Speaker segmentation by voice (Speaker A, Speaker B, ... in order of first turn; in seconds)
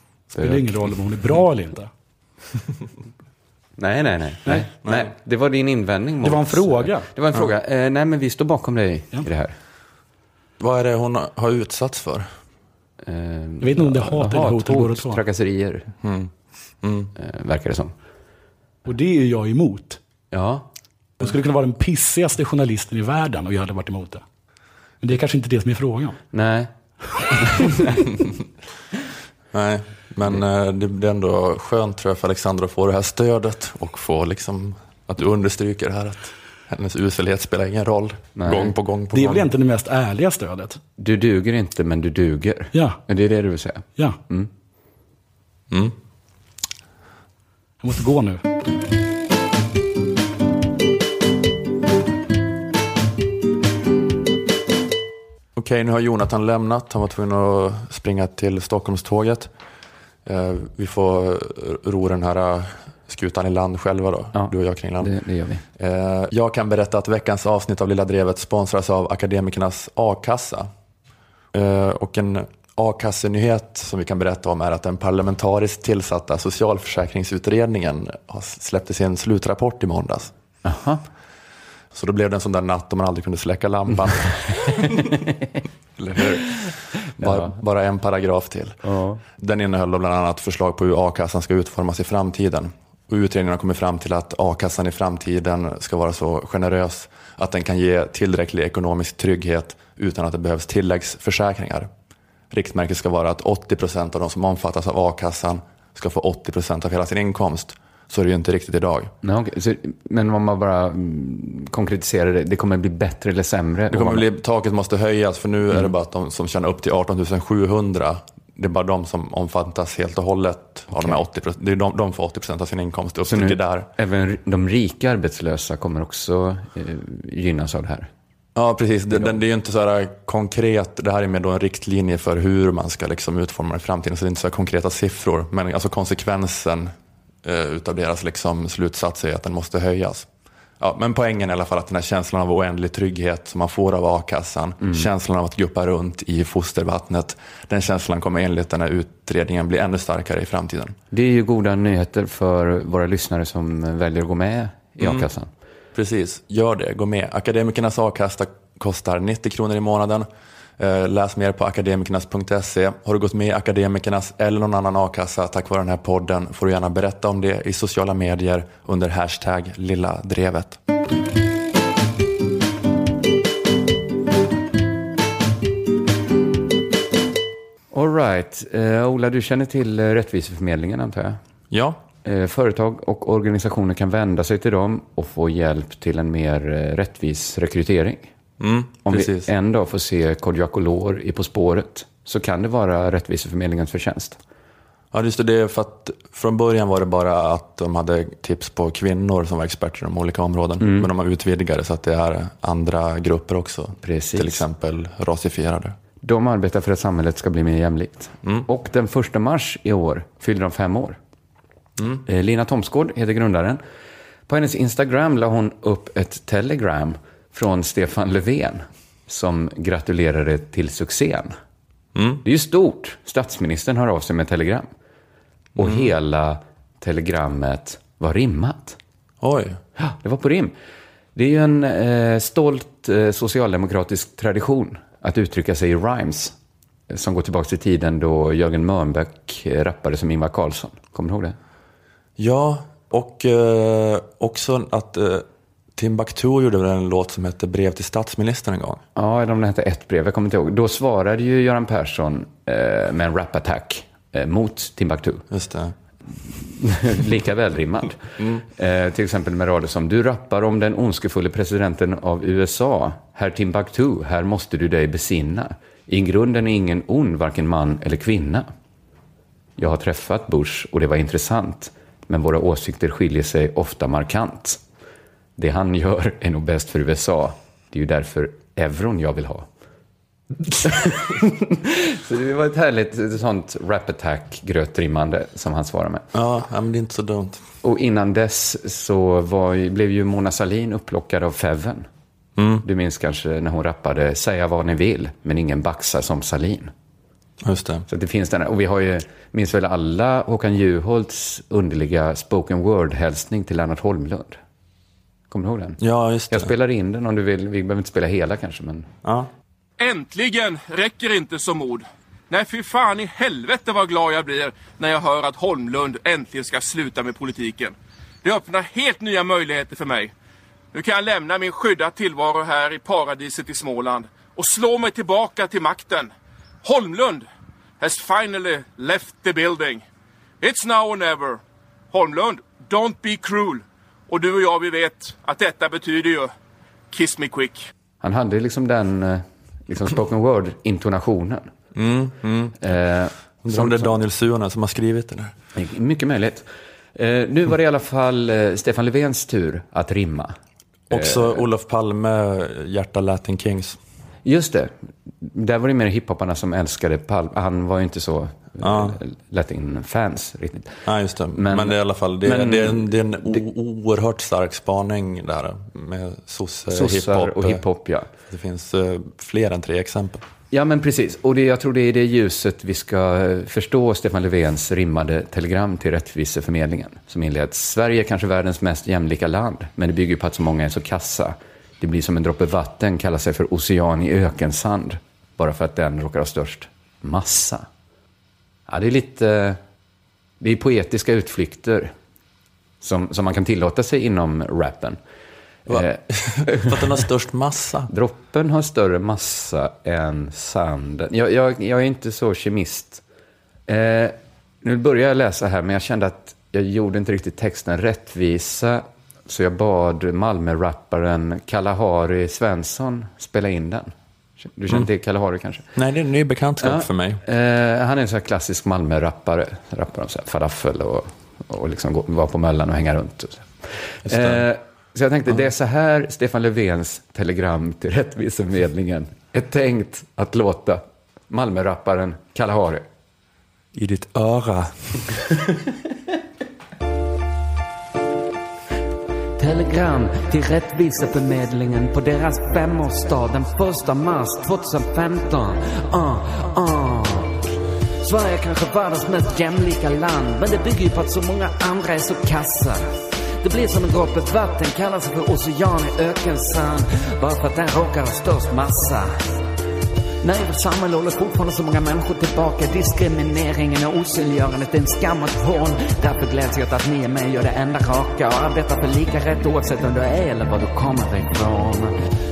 Speaker A: 0.3-1.9, 6.2-7.1, 13.6-15.2, 18.8-20.0, 21.2-24.2, 25.0-26.2, 39.1-40.8, 42.7-43.0, 47.8-48.4
Speaker B: 0.4-0.9, 3.8-9.5, 13.0-15.9, 17.2-17.9, 20.3-20.7, 26.3-26.7, 27.3-27.8, 38.4-38.7, 41.0-44.5, 64.3-65.6, 80.6-81.0, 87.2-87.5, 88.8-89.2, 109.2-114.2, 123.3-128.1, 151.1-155.5, 177.9-181.4, 182.2-188.3, 189.1-194.4, 200.8-201.1, 204.0-204.6, 206.2-211.2, 212.3-213.8, 214.5-221.5, 222.4-224.9, 225.8-229.0, 230.0-230.7, 231.3-236.5, 237.1-241.6, 249.2-255.4, 256.4-268.7, 269.8-274.8, 275.6-279.6, 280.8-286.2, 287.8-292.1, 292.8-296.9, 298.1-304.6, 305.5-309.1, 338.2-341.7, 342.8-344.1, 345.8-350.5, 351.1-351.6, 354.4-361.0, 361.5-363.6, 366.9-368.3, 370.7-387.9, 388.9-389.8, 390.6-392.1, 393.0-395.2, 395.9-397.0, 398.1-403.2, 403.9-415.8, 416.8-433.0
Speaker C: 4.8-5.1, 10.6-12.3, 16.0-16.3, 16.8-17.1, 29.5-39.5, 45.7-45.9, 55.5-59.5, 60.2-65.1, 65.8-70.7, 71.5-80.3, 81.9-85.0, 86.0-88.8, 89.4-101.9, 102.5-109.1, 113.9-123.9, 128.5-136.9, 137.4-140.3, 140.8-150.9, 155.0-155.3, 155.9-160.3, 160.8-170.8, 181.7-182.0, 188.6-189.5, 195.1-205.9, 212.0-212.2, 222.1-222.4, 225.8-226.1, 229.4-229.8, 242.4-245.4, 245.9-249.0, 255.5-255.9, 258.4-258.6, 286.3-287.6, 292.6-292.8, 297.6-298.1, 306.0-306.7, 309.2-309.5, 341.9-342.8, 343.6-345.5, 351.1-354.0, 358.8-359.2, 361.1-367.8, 368.5-370.4, 395.9-398.1, 415.9-417.4, 424.2-424.6, 433.9-435.4
Speaker D: 310.0-320.3, 320.9-326.3, 326.8-327.5, 328.0-330.0, 330.6-336.5, 337.1-337.9
Speaker E: 439.6-447.6, 448.2-459.5, 460.4-472.2